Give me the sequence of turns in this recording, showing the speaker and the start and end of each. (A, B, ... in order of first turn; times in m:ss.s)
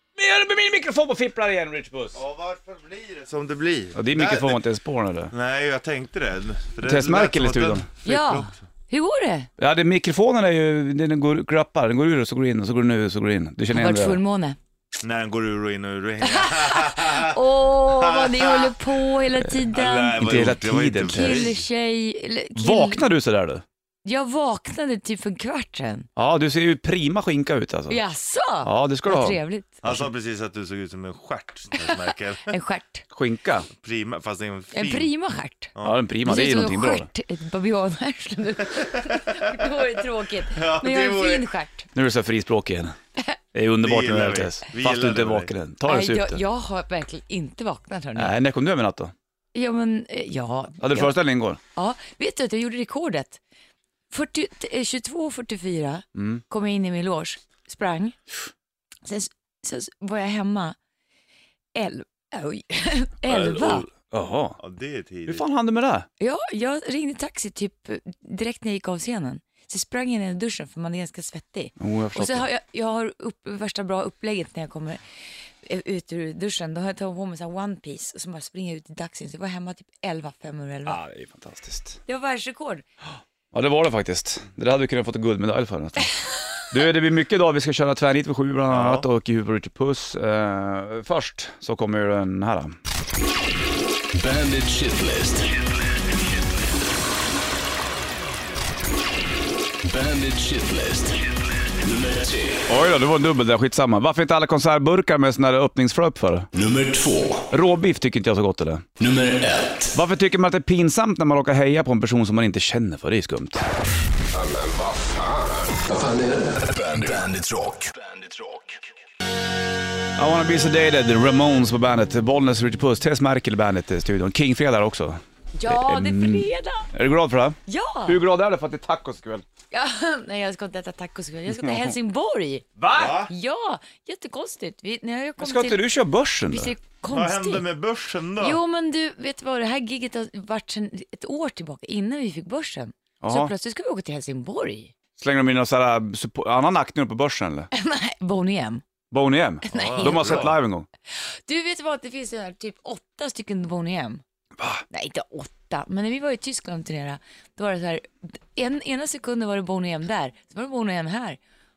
0:00.2-0:02.2 A
0:02.1-0:04.6 B
0:04.0-0:05.3 A
0:05.3-0:08.6 B
0:06.8-0:07.9 A
0:08.0-0:09.5 C
0:09.6-0:14.2 A
0:13.7-0:14.6 C
0:15.0-0:18.8 B
0:16.3-0:20.2 C
0:19.7-0:21.7 B
0:20.2-0:21.5 A
0:21.1-0:23.0 C
0:22.6-0:23.6 A
0:24.0-0:26.1 C
0:26.2-0:28.0 A
0:27.9-0:29.8 C
0:28.6-0:30.0 A
0:29.8-0:32.6 B
0:31.7-0:33.0 C
0:33.1-0:33.7 A
0:33.8-0:35.1 B
0:34.7-0:35.7 C
0:35.8-0:37.1 A
0:36.2-0:41.9 C
0:38.8-0:39.7 B
0:40.5-0:41.5 B
0:41.9-0:43.0 A
0:43.5-0:46.4 A
0:43.8-0:45.5 B
0:45.9-0:48.3 C
0:48.2-0:49.1 A
0:49.5-0:51.2 C
0:50.8-0:51.6 A
0:51.8-0:53.4 C
0:54.1-0:58.2 C
0:56.2-0:56.4 A
0:59.0-1:00.8 C
1:01.8-1:03.9 C
1:03.3-1:03.8 B
1:03.9-1:04.6 A
1:04.6-1:05.4 B
1:05.3-1:06.1 A
1:06.2-1:15.0 C
1:11.8-1:12.5 A
1:15.6-1:21.0 C
1:20.9-1:22.0 A
1:22.1-1:22.8 C
1:23.5-1:26.1 A
1:26.7-1:32.8 A
1:28.7-1:29.1 B
1:34.2-1:35.6 D
1:39.8-1:42.6 D
1:42.7-1:46.5 A
1:46.5-1:47.5 D
1:47.5-1:48.9 A
1:49.0-1:50.0 D
1:49.9-1:53.7 A
1:54.3-1:58.8 D
2:00.2-2:09.4 A
2:05.6-2:06.9 C
2:07.7-2:08.2 C
2:09.7-2:15.8 C
2:12.8-2:13.2 A
2:12.9-2:13.3 B
2:15.4-2:16.7 A
2:16.5-2:17.6 C
2:17.1-2:18.6 B
2:18.4-2:24.9 C
2:23.2-2:23.5 A
2:25.2-2:27.7 A
2:27.7-2:28.8 C
2:29.1-2:30.9 A
2:29.7-2:30.6 C
2:29.7-2:30.6 B
2:31.5-2:34.2 C
2:34.6-2:34.8 A
2:34.9-2:41.4 C